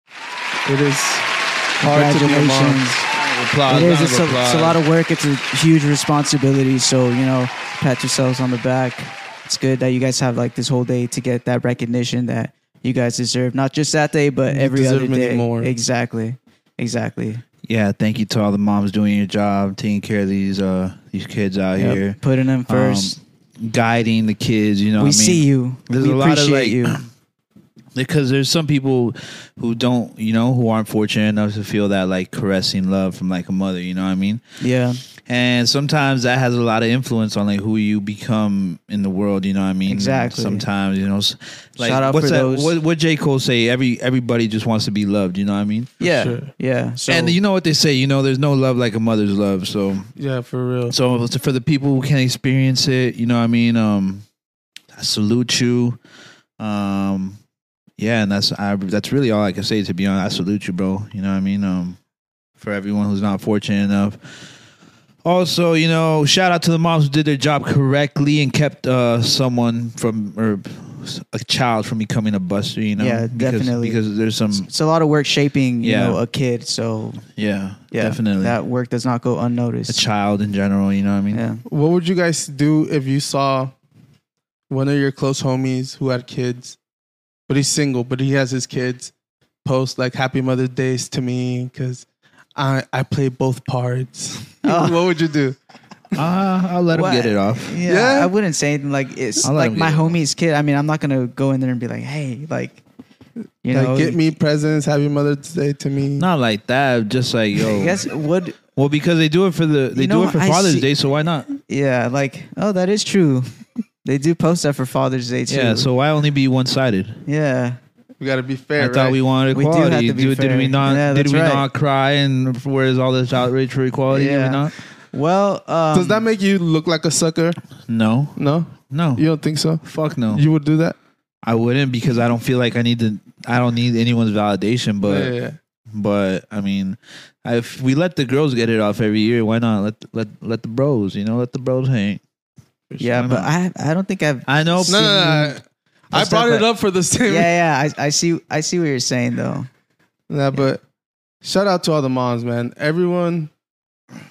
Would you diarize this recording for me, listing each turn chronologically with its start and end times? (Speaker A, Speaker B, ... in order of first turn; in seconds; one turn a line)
Speaker A: 0.7-3.0
Speaker B: 1.8-3.0
Speaker C: 3.1-4.8
Speaker B: 3.7-17.4
Speaker A: 14.5-15.7
Speaker C: 17.6-27.0
Speaker B: 21.8-23.2
Speaker B: 25.0-27.0
Speaker C: 27.9-34.4
Speaker B: 34.6-35.0
Speaker C: 35.3-45.9
Speaker B: 39.9-40.6
Speaker B: 41.8-42.7
Speaker A: 46.0-46.5
Speaker B: 46.0-47.4
Speaker C: 47.1-50.1
Speaker A: 50.2-51.0
Speaker C: 50.9-54.2
Speaker C: 55.0-56.0
Speaker C: 56.6-57.4
Speaker C: 58.0-62.0
Speaker C: 62.6-64.2
Speaker C: 65.2-74.7
Speaker B: 73.0-74.0
Speaker B: 74.5-77.2
Speaker C: 75.8-76.2
Speaker C: 77.4-78.6
Speaker B: 77.9-80.0
Speaker C: 79.9-81.4
Speaker B: 81.3-81.6
Speaker A: 81.7-83.7
Speaker A: 84.7-86.8
Speaker A: 87.5-89.1
Speaker A: 89.6-92.0
Speaker A: 92.6-95.6
Speaker B: 94.6-95.0
Speaker C: 96.2-97.8
Speaker B: 96.9-102.8
Speaker A: 97.8-98.3
Speaker C: 99.4-100.2
Speaker B: 103.6-104.3
Speaker A: 103.7-106.3
Speaker C: 106.2-108.0
Speaker B: 107.6-108.6
Speaker C: 108.8-111.5
Speaker B: 110.0-110.9
Speaker B: 111.5-113.5
Speaker B: 114.0-115.9
Speaker C: 115.5-117.2
Speaker B: 117.3-117.8
Speaker A: 118.2-119.2
Speaker C: 118.8-124.8
Speaker B: 119.5-121.7
Speaker B: 124.1-126.3
Speaker A: 125.9-127.6
Speaker C: 127.9-129.2
Speaker A: 128.4-131.0
Speaker C: 129.8-130.4
Speaker C: 131.4-135.3
Speaker A: 135.0-135.6
Speaker C: 135.9-142.2
Speaker B: 143.0-145.6
Speaker C: 143.0-143.5
Speaker C: 144.5-145.0
Speaker A: 144.9-147.5
Speaker B: 146.1-146.7
Speaker B: 147.3-149.7
Speaker A: 150.3-150.8
Speaker A: 151.4-153.5